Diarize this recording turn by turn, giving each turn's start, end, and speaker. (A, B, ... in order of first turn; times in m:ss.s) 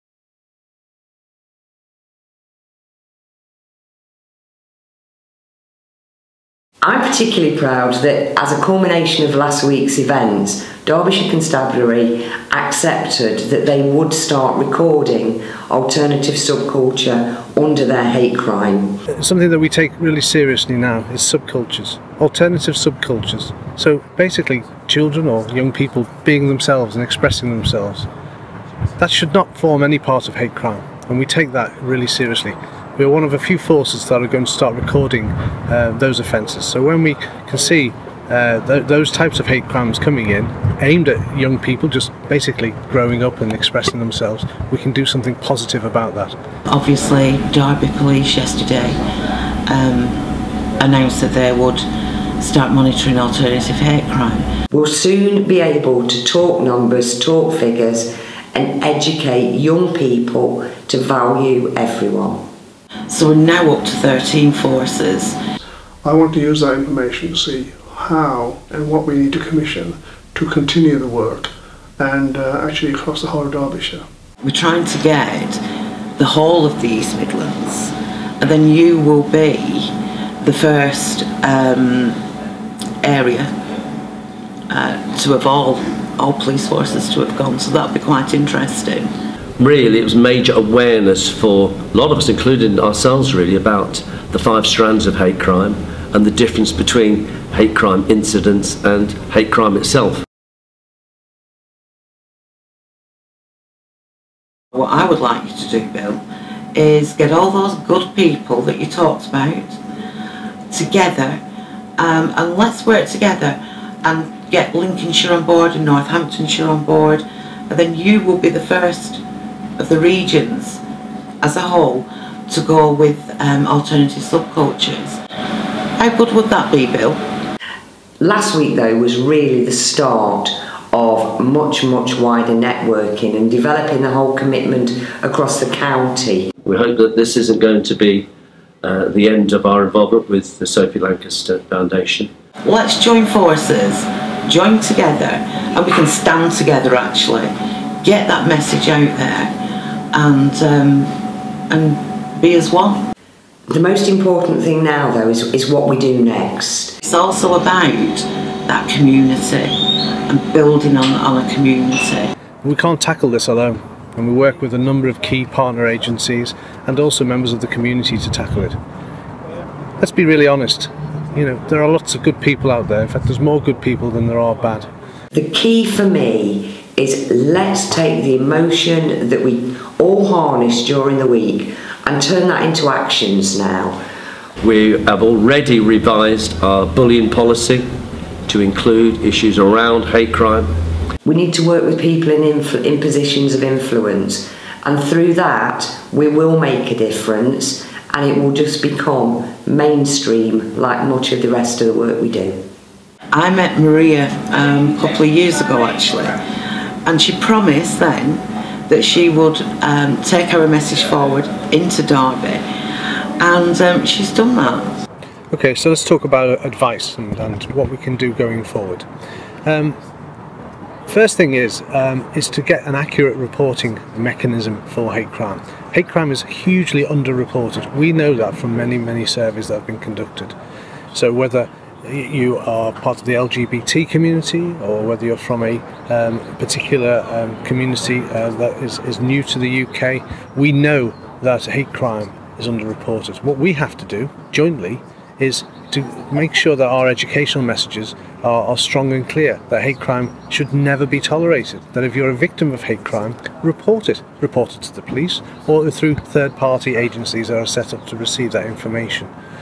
0:06.8-0:19.0 A
0:19.1-0:28.1 B
0:29.0-0:46.4 B
0:46.7-0:49.0 C
0:49.7-0:51.9 C
0:52.4-0:54.5 C
0:54.7-1:02.5 A
1:03.1-1:05.4 C
1:06.0-1:14.0 D
1:14.4-1:15.6 C
1:16.2-1:22.2 C
1:23.0-1:23.5 C
1:24.7-1:29.1 C
1:29.6-1:40.2 E
1:44.7-1:46.2 C
1:46.7-1:49.8 C
1:50.7-1:51.4 C
1:52.0-1:59.2 C
1:59.8-2:00.8 C
2:01.4-2:05.2 C
2:06.0-2:07.2 C
2:08.2-2:16.5 A
2:16.6-2:18.3 E
2:18.8-2:22.3 E
2:22.6-2:27.5 C
2:28.0-2:29.5 C
2:30.1-2:31.1 C
2:31.7-2:33.0 C
2:33.7-2:37.0 A
2:37.0-2:42.3 C
2:42.6-2:48.8 B
2:50.0-2:54.9 B
2:55.3-3:04.0 A
3:04.6-3:07.8 E
3:08.5-3:10.7 E
3:11.2-3:22.6 A
3:23.3-3:26.4 C
3:27.0-3:32.6 C
3:33.4-3:34.9 C
3:35.5-3:39.1 B
3:39.6-3:40.0 B
3:41.1-3:50.6 B
3:51.1-4:19.3 B